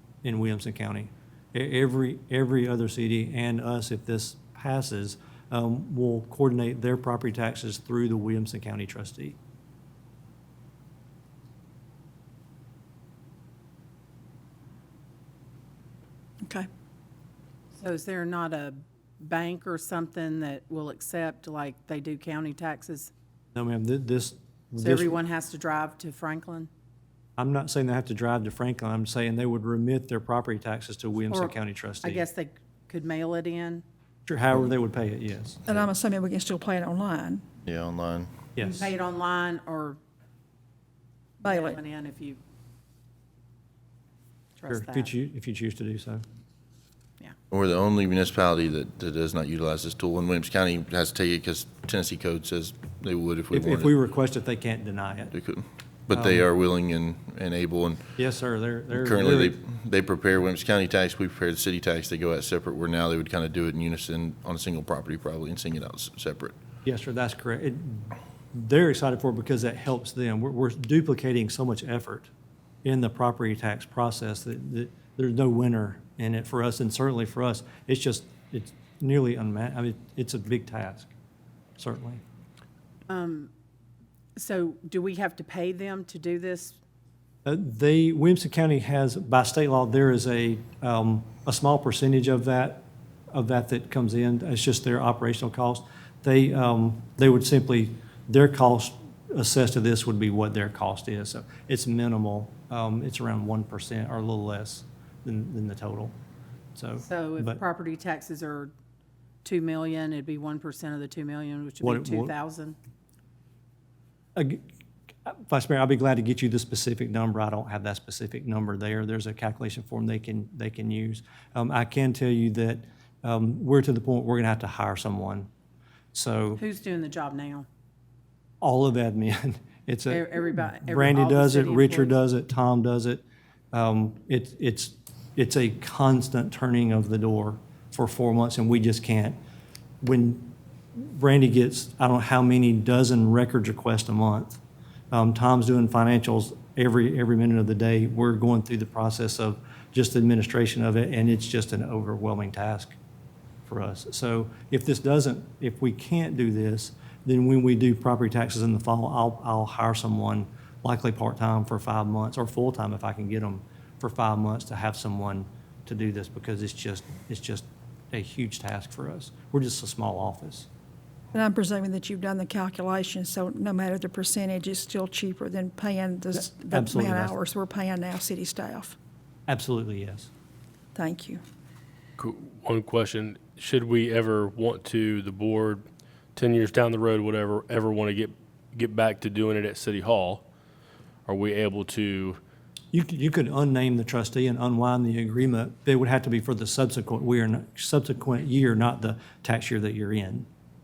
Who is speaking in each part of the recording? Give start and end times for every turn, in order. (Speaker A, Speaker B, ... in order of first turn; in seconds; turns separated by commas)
Speaker A: 0.2-9.4, Speaker B: 16.4-16.7, Speaker C: 17.8-23.1, Speaker A: 23.5-25.1, Speaker C: 24.8-26.7, Speaker A: 27.4-32.2, Speaker C: 31.3-33.8, Speaker A: 34.2-35.8, Speaker B: 35.7-37.4, Speaker D: 37.6-38.4, Speaker A: 38.5-38.9, Speaker C: 38.6-40.0, Speaker C: 41.4-42.4, Speaker B: 41.4-41.8, Speaker C: 44.6-45.1, Speaker A: 44.7-46.2, Speaker D: 47.5-53.9, Speaker A: 53.5-55.3, Speaker D: 55.3-58.1, Speaker A: 56.1-56.4, Speaker A: 58.2-59.6, Speaker D: 58.9-66.5, Speaker A: 66.8-72.3, Speaker A: 72.8-81.1, Speaker A: 81.8-82.2, Speaker C: 83.1-83.5, Speaker C: 84.3-86.8, Speaker A: 87.4-106.2, Speaker A: 106.7-107.6, Speaker C: 107.0-108.7, Speaker C: 109.4-112.8, Speaker A: 111.8-112.3, Speaker A: 114.3-114.6, Speaker A: 115.2-125.5, Speaker A: 126.1-126.6, Speaker C: 126.6-127.7, Speaker A: 128.6-139.4, Speaker C: 130.1-132.2, Speaker A: 140.0-144.6, Speaker A: 145.1-153.0, Speaker A: 153.7-170.7, Speaker B: 171.3-178.9, Speaker A: 176.4-177.3, Speaker A: 179.5-180.3, Speaker B: 180.9-181.4, Speaker E: 182.2-190.4, Speaker E: 191.3-192.4, Speaker A: 192.9-200.5